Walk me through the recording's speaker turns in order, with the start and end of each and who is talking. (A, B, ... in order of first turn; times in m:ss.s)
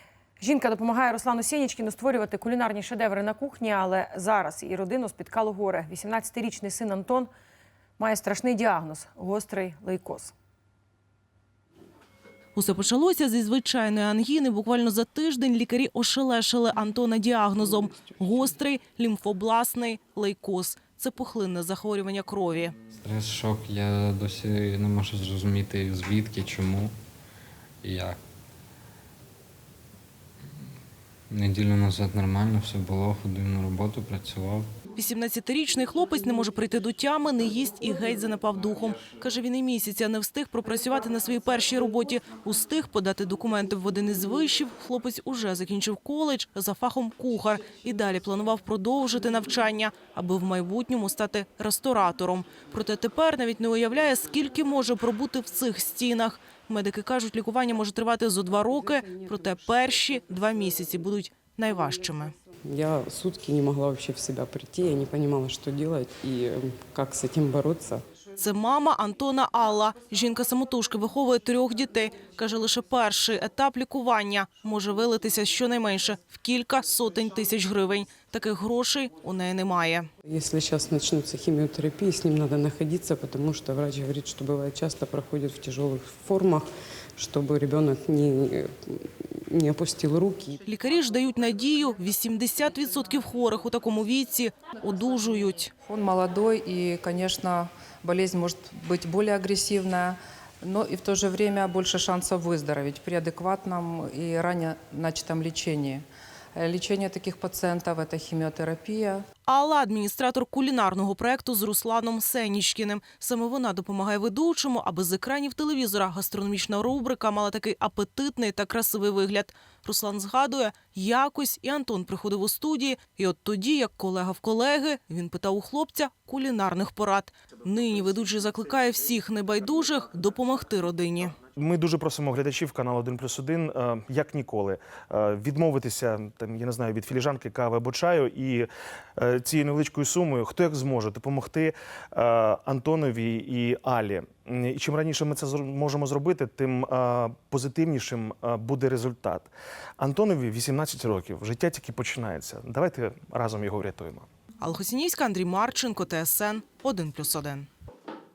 0:00.4-0:07.3 A
0:08.0-0:10.3 A
0:12.6-0:22.7 B
0:22.9-0:26.9 C
0:27.8-0:28.2 C
0:31.3-0:34.7 C
0:35.0-1:02.3 B
1:02.6-1:08.0 D
1:08.4-1:20.1 B
1:20.2-1:30.6 D
1:30.6-1:35.7 B
1:35.8-1:49.2 E
1:49.5-2:11.4 B
2:11.6-2:34.3 F
2:34.6-2:37.7 B